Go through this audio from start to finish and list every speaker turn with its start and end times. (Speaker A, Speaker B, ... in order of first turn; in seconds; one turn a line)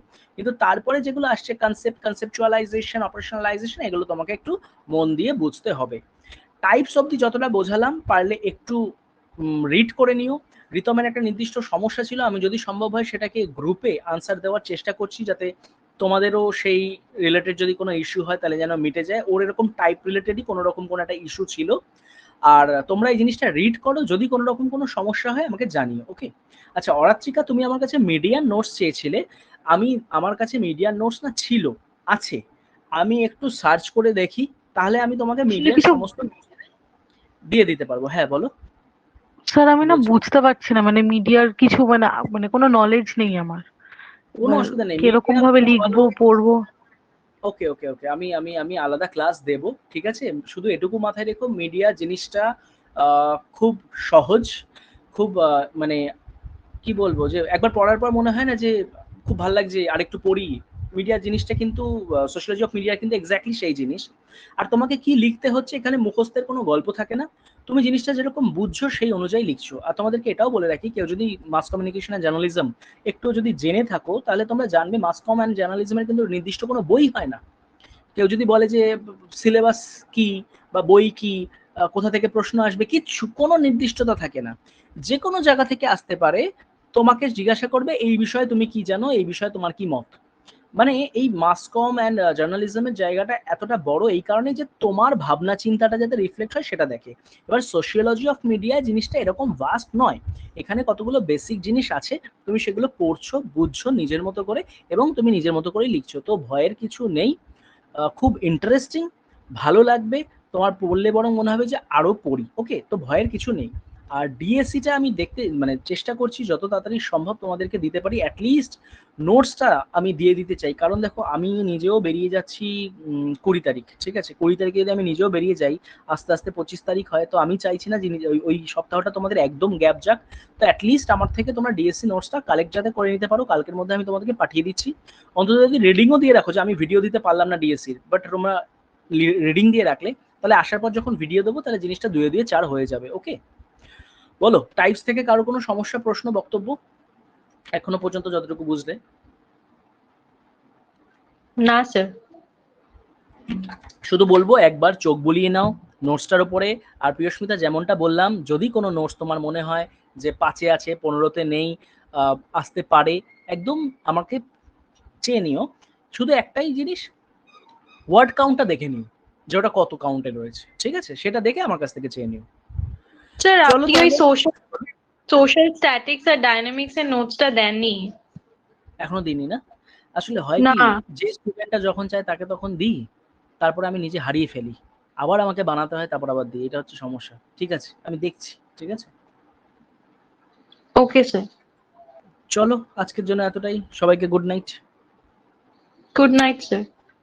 Speaker A: 0.4-6.0
Speaker A: 6.6-8.8
Speaker A: 9.5-21.7
Speaker A: 22.5-29.2
Speaker A: 29.7-32.4
Speaker A: 33.0-36.4
Speaker B: 35.5-36.1
Speaker A: 37.5-38.5
Speaker B: 39.5-43.6
Speaker A: 39.8-40.2
Speaker B: 44.4-46.5
Speaker A: 44.4-46.1
Speaker A: 47.5-52.5
Speaker A: 53.0-54.5
Speaker A: 55.1-56.0
Speaker A: 56.8-58.7
Speaker A: 59.3-64.0
Speaker A: 64.6-77.4
Speaker A: 78.2-84.5
Speaker A: 85.1-90.2
Speaker A: 90.8-107.3
Speaker A: 108.1-109.1
Speaker A: 109.6-138.6
Speaker A: 139.2-143.3
Speaker A: 144.4-146.7
Speaker A: 147.7-149.0
Speaker C: 151.6-152.1
Speaker A: 154.1-164.4
Speaker A: 165.2-167.1
Speaker A: 168.1-172.4
Speaker C: 173.4-174.6
Speaker A: 173.6-174.2
Speaker C: 175.3-178.1
Speaker A: 179.0-179.6
Speaker A: 180.2-183.0
Speaker C: 180.6-181.0
Speaker A: 183.6-189.1
Speaker C: 191.0-191.4
Speaker A: 192.5-194.8
Speaker C: 196.1-196.8